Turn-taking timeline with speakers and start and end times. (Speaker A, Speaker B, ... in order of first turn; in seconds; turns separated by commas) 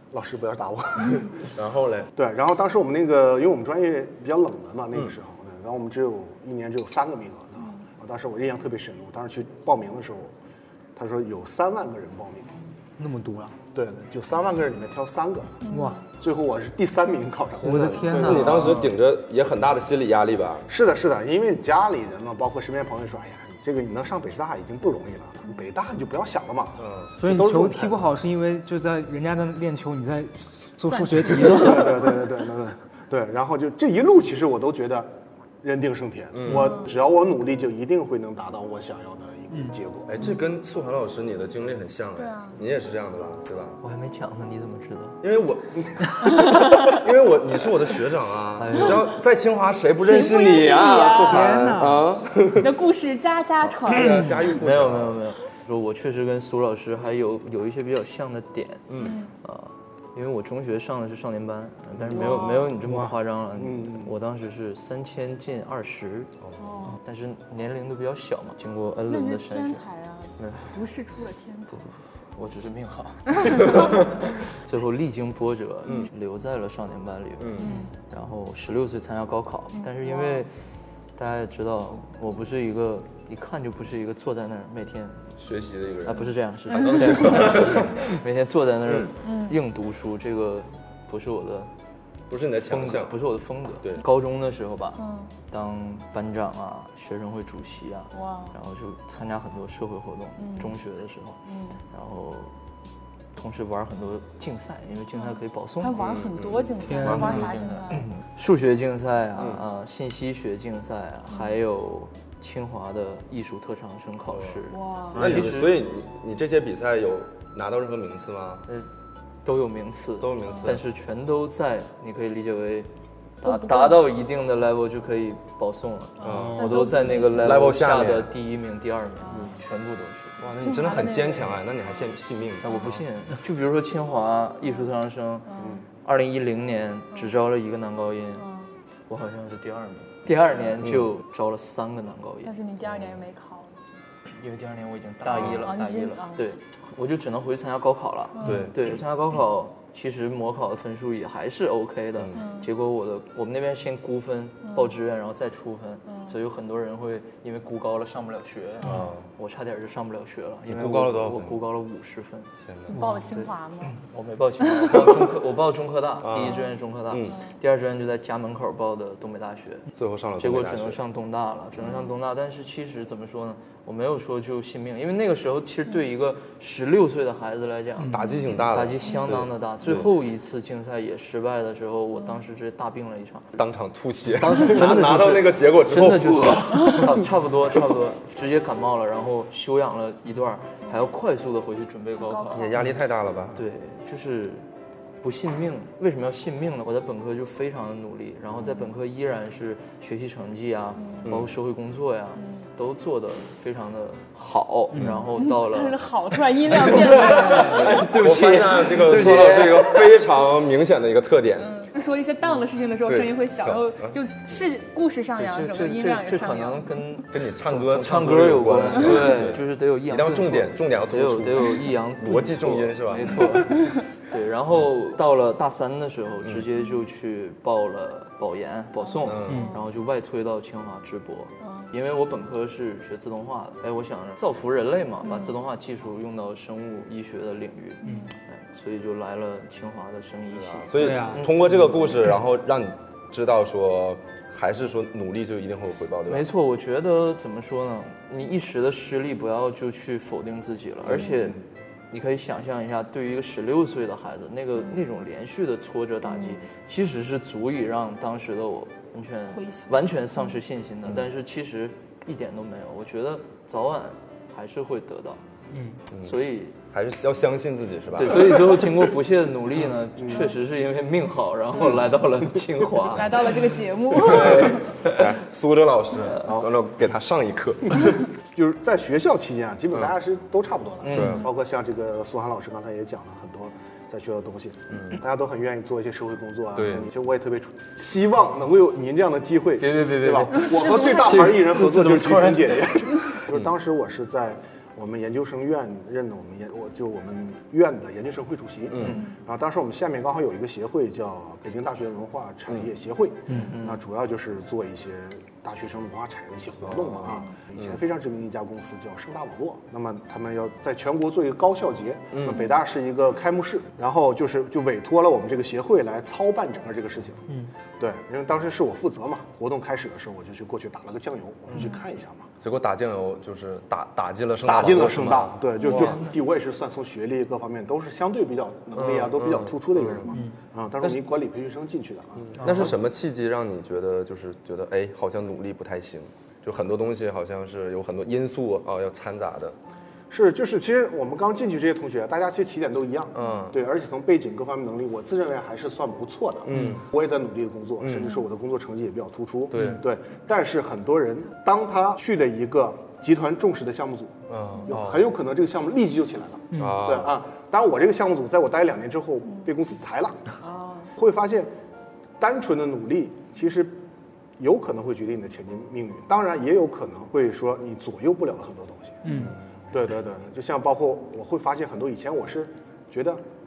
Speaker A: 0.1-1.4, Speaker B: 1.5-2.1, Speaker A: 2.1-10.3, Speaker A: 10.9-12.6, Speaker C: 13.0-13.6, Speaker A: 13.7-15.6, Speaker D: 15.6-16.0, Speaker C: 15.7-16.0, Speaker A: 16.2-18.7, Speaker C: 17.6-18.9, Speaker B: 17.6-20.7, Speaker A: 20.7-28.1, Speaker B: 26.8-27.1, Speaker C: 27.2-32.0, Speaker D: 30.9-31.8, Speaker A: 31.4-40.1, Speaker B: 36.3-36.8, Speaker D: 36.5-36.9, Speaker B: 40.1-43.8, Speaker D: 42.2-42.6, Speaker E: 43.8-45.2, Speaker B: 45.2-52.7, Speaker D: 46.2-46.8, Speaker E: 48.6-49.1, Speaker D: 50.0-51.6, Speaker C: 51.3-52.0, Speaker D: 52.5-54.5, Speaker B: 53.7-55.2, Speaker E: 54.5-66.3, Speaker B: 58.9-59.2, Speaker D: 59.0-59.3, Speaker D: 62.1-62.7, Speaker C: 62.7-63.1, Speaker A: 63.5-64.2, Speaker D: 66.6-67.0, Speaker E: 66.9-69.8, Speaker D: 69.0-71.9, Speaker E: 70.4-70.8, Speaker E: 71.7-80.5, Speaker D: 73.5-73.9, Speaker B: 77.4-77.7, Speaker D: 77.6-77.9, Speaker D: 79.7-80.5, Speaker E: 81.2-85.3, Speaker B: 85.4-88.0, Speaker E: 86.0-91.7, Speaker D: 86.7-87.9, Speaker B: 88.9-89.1, Speaker D: 89.2-89.6, Speaker B: 92.3-93.2, Speaker E: 92.6-102.5, Speaker D: 95.0-95.3, Speaker D: 98.1-98.5, Speaker D: 100.4-100.7, Speaker D: 101.5-101.8, Speaker E: 103.3-106.0, Speaker D: 105.1-108.1, Speaker B: 106.0-107.5, Speaker C: 106.8-107.4, Speaker E: 107.0-115.8, Speaker D: 111.3-111.5, Speaker B: 114.3-114.6, Speaker D: 114.7-115.5, Speaker B: 115.1-118.7, Speaker E: 119.4-122.9, Speaker B: 120.2-120.8, Speaker D: 120.4-120.8, Speaker E: 123.4-130.5, Speaker D: 123.4-124.0, Speaker D: 126.2-127.5, Speaker B: 126.2-128.3, Speaker B: 130.4-133.0, Speaker D: 130.6-131.6, Speaker E: 132.6-135.5, Speaker D: 135.4-135.8, Speaker A: 135.6-135.8, Speaker E: 136.0-138.4, Speaker D: 138.3-138.7, Speaker E: 139.1-142.5, Speaker B: 140.8-141.1, Speaker D: 142.4-143.8, Speaker B: 142.8-143.2, Speaker E: 144.3-162.5, Speaker D: 145.2-146.5, Speaker B: 145.4-145.6, Speaker D: 148.3-148.7, Speaker B: 148.4-148.8, Speaker D: 152.3-152.7, Speaker D: 154.6-154.9, Speaker D: 156.1-156.4, Speaker B: 158.8-159.2, Speaker B: 160.7-161.6, Speaker B: 162.6-163.0, Speaker D: 162.9-164.0, Speaker C: 162.9-163.3, Speaker E: 163.9-169.8, Speaker D: 164.8-165.1, Speaker B: 166.2-167.3, Speaker D: 166.4-166.7, Speaker D: 167.2-167.5, Speaker B: 169.9-171.0, Speaker E: 170.4-183.5, Speaker D: 171.8-172.1, Speaker B: 178.1-180.1, Speaker D: 178.2-178.5, Speaker B: 183.6-187.1, Speaker E: 184.4-192.9, Speaker D: 186.8-187.1, Speaker D: 192.2-192.9, Speaker B: 192.5-193.6, Speaker E: 193.5-194.7, Speaker E: 195.2-206.0, Speaker D: 201.0-201.3, Speaker B: 201.2-201.5, Speaker D: 202.3-202.7, Speaker B: 204.9-205.2, Speaker D: 205.3-208.0, Speaker B: 206.7-211.7, Speaker E: 206.8-210.1, Speaker D: 211.6-217.0, Speaker B: 213.0-214.2, Speaker E: 215.3-242.1, Speaker B: 217.3-223.6, Speaker D: 218.9-219.4, Speaker D: 223.4-224.0, Speaker D: 229.0-229.9, Speaker B: 229.2-229.7, Speaker C: 229.5-229.7, Speaker D: 231.6-231.9, Speaker D: 235.2-235.5, Speaker D: 238.0-238.3, Speaker B: 240.6-246.5, Speaker C: 240.9-241.5, Speaker E: 246.3-251.6, Speaker B: 251.1-251.3, Speaker D: 251.1-251.4, Speaker E: 252.1-265.4, Speaker D: 256.2-256.6, Speaker D: 259.5-260.5, Speaker C: 265.7-266.0, Speaker B: 266.1-266.4, Speaker E: 266.2-266.8, Speaker B: 266.9-268.9, Speaker E: 268.1-273.5, Speaker D: 273.1-274.9, Speaker B: 274.1-278.2, Speaker E: 274.2-275.2, Speaker A: 276.4-276.7, Speaker A: 278.5-317.4, Speaker E: 281.0-281.4, Speaker B: 281.1-281.4, Speaker B: 284.9-285.2, Speaker B: 286.8-287.1, Speaker E: 289.8-292.8, Speaker D: 290.7-291.3, Speaker B: 298.9-299.2, Speaker E: 299.0-299.3, Speaker D: 299.0-299.3, Speaker E: 303.5-304.0, Speaker B: 306.9-307.9, Speaker B: 312.3-312.6, Speaker A: 318.0-322.5, Speaker B: 322.6-326.2, Speaker A: 324.6-332.9, Speaker D: 325.8-326.1, Speaker B: 328.9-330.2, Speaker B: 332.5-339.7, Speaker C: 332.6-332.9, Speaker A: 340.3-354.4, Speaker B: 343.3-343.8, Speaker B: 346.6-347.0, Speaker B: 348.0-348.4, Speaker B: 349.7-350.0, Speaker B: 354.5-355.3, Speaker A: 354.9-360.4, Speaker C: 356.7-357.0, Speaker B: 356.8-357.4, Speaker D: 360.6-361.1, Speaker A: 361.1-361.7, Speaker A: 362.4-364.0, Speaker A: 364.6-369.2, Speaker C: 369.2-369.5, Speaker B: 369.3-369.5, Speaker A: 369.9-373.4